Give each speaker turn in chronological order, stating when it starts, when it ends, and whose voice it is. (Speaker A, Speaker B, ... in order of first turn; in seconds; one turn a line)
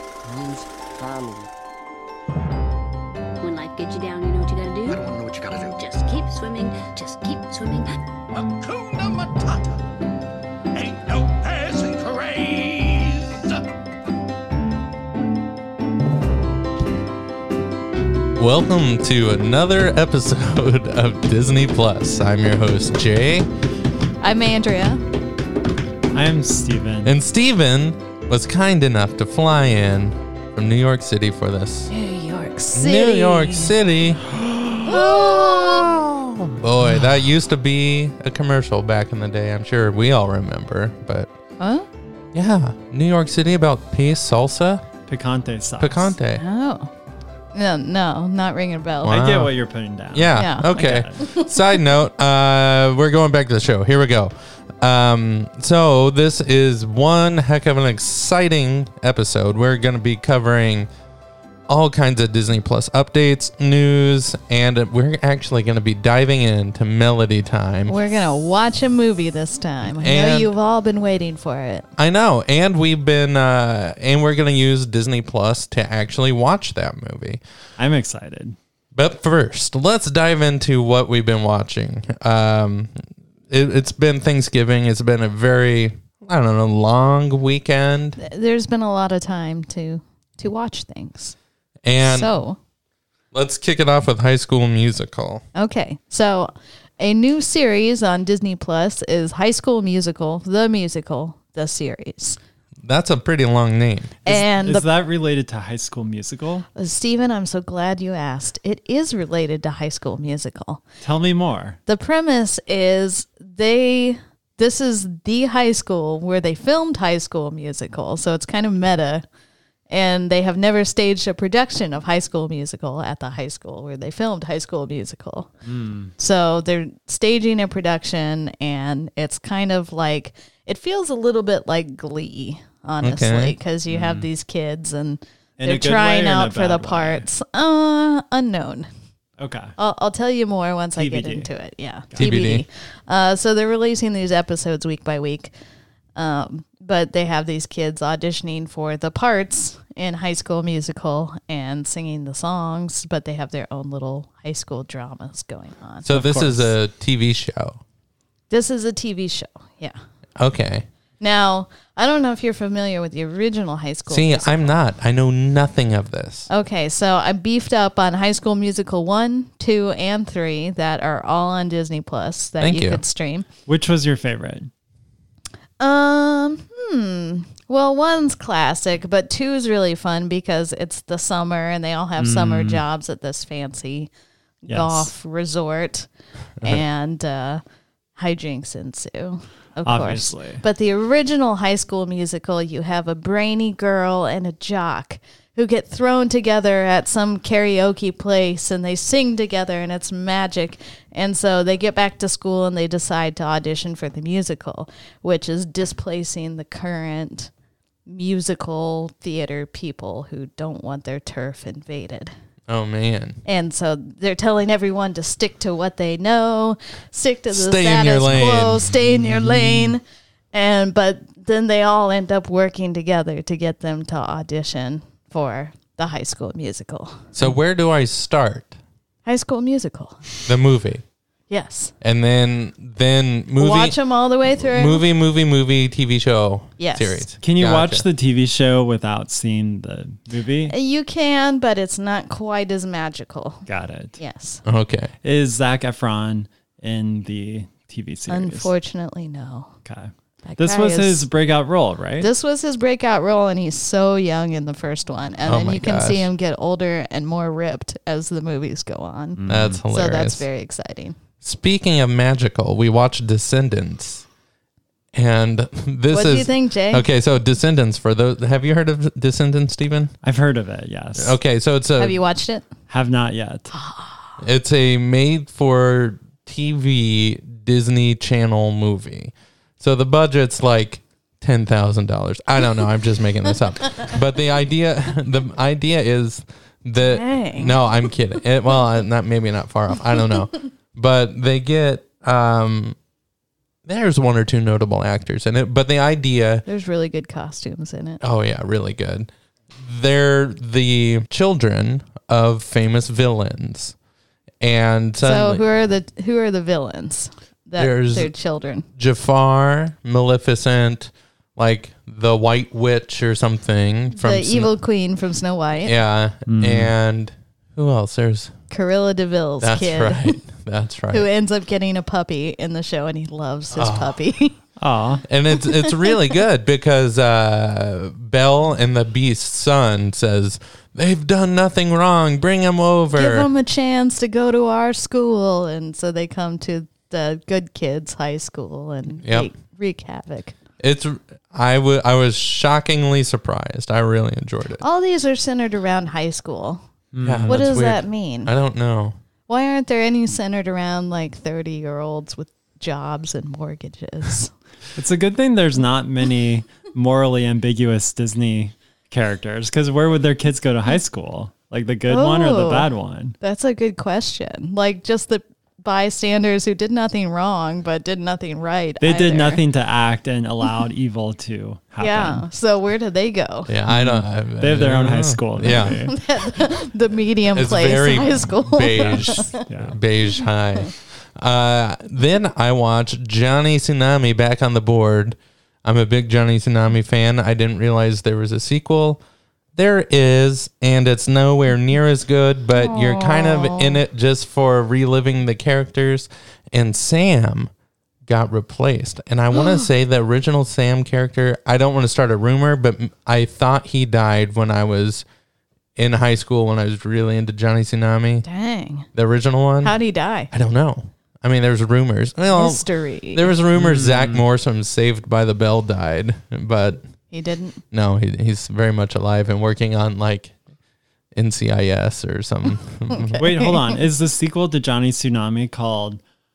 Speaker A: 0.2-1.5
Speaker B: 3.4-5.0
Speaker A: 4.9-5.9
Speaker B: 6.0-8.0
Speaker C: 8.3-9.7
Speaker C: 10.7-13.6
Speaker D: 18.4-23.5
Speaker E: 24.2-25.0
Speaker F: 26.1-27.1
Speaker D: 27.0-31.9
Speaker E: 31.9-33.7
Speaker D: 32.7-34.2
Speaker E: 34.9-36.0
Speaker D: 35.2-35.5
Speaker D: 36.6-41.3
Speaker E: 41.6-41.9
Speaker D: 42.3-44.9
Speaker F: 45.1-46.1
Speaker D: 45.8-46.4
Speaker E: 46.4-46.9
Speaker E: 47.5-49.2
Speaker D: 49.0-49.5
Speaker F: 49.0-51.1
Speaker D: 50.1-60.9
Speaker E: 50.4-51.5
Speaker D: 61.7-68.0
Speaker E: 67.9-71.9
Speaker D: 69.8-70.5
Speaker D: 72.0-77.4
Speaker F: 77.8-78.6
Speaker D: 79.0-83.0
Speaker D: 83.5-88.2
Speaker E: 88.2-91.4
Speaker D: 91.8-92.3
Speaker E: 92.0-92.6
Speaker D: 93.3-95.5
Speaker E: 95.5-102.4
Speaker D: 102.8-104.2
Speaker E: 104.2-104.9
Speaker F: 104.2-106.7
Speaker E: 106.8-110.8
Speaker F: 111.0-111.8
Speaker E: 111.9-119.2
Speaker E: 119.9-125.5
Speaker F: 125.7-126.1
Speaker E: 126.2-138.9
Speaker D: 133.0-133.6
Speaker F: 133.9-134.3
Speaker F: 135.6-137.2
Speaker F: 139.4-139.8
Speaker E: 139.8-145.5
Speaker F: 141.0-141.5
Speaker D: 142.2-142.7
Speaker E: 146.2-156.1
Speaker D: 156.0-157.8
Speaker F: 156.1-156.7
Speaker E: 158.5-160.0
Speaker D: 160.4-160.9
Speaker E: 161.2-164.8
Speaker D: 164.1-166.5
Speaker E: 166.5-173.5
Speaker D: 172.6-173.0
Speaker F: 173.7-174.7
Speaker E: 175.8-184.1
Speaker F: 182.2-182.8
Speaker F: 184.7-185.1
Speaker E: 184.7-186.1
Speaker E: 186.6-187.6
Speaker E: 188.2-207.5
Speaker F: 189.8-190.6
Speaker E: 208.1-212.3
Speaker D: 212.7-213.4
Speaker E: 213.4-220.0
Speaker D: 217.5-218.9
Speaker F: 219.3-219.9
Speaker E: 220.5-227.3
Speaker D: 227.3-228.8
Speaker E: 229.3-230.3
Speaker D: 230.5-231.0
Speaker E: 231.5-231.9
Speaker D: 232.0-234.0
Speaker E: 233.6-235.0
Speaker D: 234.6-238.1
Speaker E: 236.8-237.3
Speaker F: 237.4-240.7
Speaker E: 240.7-243.7
Speaker F: 243.7-244.2
Speaker E: 244.2-244.6
Speaker D: 244.7-245.1
Speaker F: 245.2-248.7
Speaker E: 248.3-249.7
Speaker F: 249.9-252.3
Speaker E: 250.4-251.2
Speaker E: 252.2-261.2
Speaker D: 255.4-256.3
Speaker F: 259.4-259.8
Speaker D: 259.5-260.5
Speaker D: 261.4-264.2
Speaker D: 265.1-270.1
Speaker E: 266.1-267.1
Speaker F: 270.2-271.4
Speaker D: 271.2-272.2
Speaker E: 272.0-272.7
Speaker F: 272.9-273.7
Speaker E: 273.7-274.3
Speaker D: 274.4-293.0
Speaker E: 287.0-287.8
Speaker D: 293.9-296.6
Speaker E: 296.7-298.2
Speaker D: 298.2-303.9
Speaker D: 304.6-305.7
Speaker E: 305.2-308.9
Speaker D: 307.8-308.3
Speaker D: 309.0-314.8
Speaker E: 314.2-315.9
Speaker D: 315.8-318.5
Speaker F: 316.5-316.9
Speaker E: 318.7-320.4
Speaker D: 319.6-321.3
Speaker E: 321.1-324.6
Speaker D: 323.7-324.2
Speaker F: 324.8-325.2
Speaker D: 325.3-333.5
Speaker E: 325.6-326.1
Speaker E: 333.1-340.6
Speaker D: 339.2-339.5
Speaker D: 340.8-344.8
Speaker E: 344.8-346.8
Speaker F: 347.1-347.6
Speaker D: 347.2-349.2
Speaker E: 347.5-348.5
Speaker E: 349.5-354.5
Speaker F: 354.9-363.4
Speaker E: 362.1-369.6
Speaker F: 369.0-372.4
Speaker E: 372.0-373.7
Speaker D: 373.7-376.1
Speaker F: 373.9-376.2
Speaker E: 376.1-379.6
Speaker D: 377.5-389.2
Speaker F: 379.2-380.0
Speaker D: 389.8-397.7
Speaker E: 392.8-394.0
Speaker D: 398.3-405.2
Speaker E: 399.5-399.9
Speaker D: 406.0-408.5
Speaker E: 408.4-409.1
Speaker D: 409.1-410.0
Speaker E: 409.8-410.5
Speaker D: 410.5-417.0
Speaker E: 412.5-413.5
Speaker F: 413.7-414.5
Speaker E: 417.3-417.8
Speaker D: 417.9-420.5
Speaker D: 421.4-423.4
Speaker E: 423.1-423.9
Speaker F: 423.4-426.2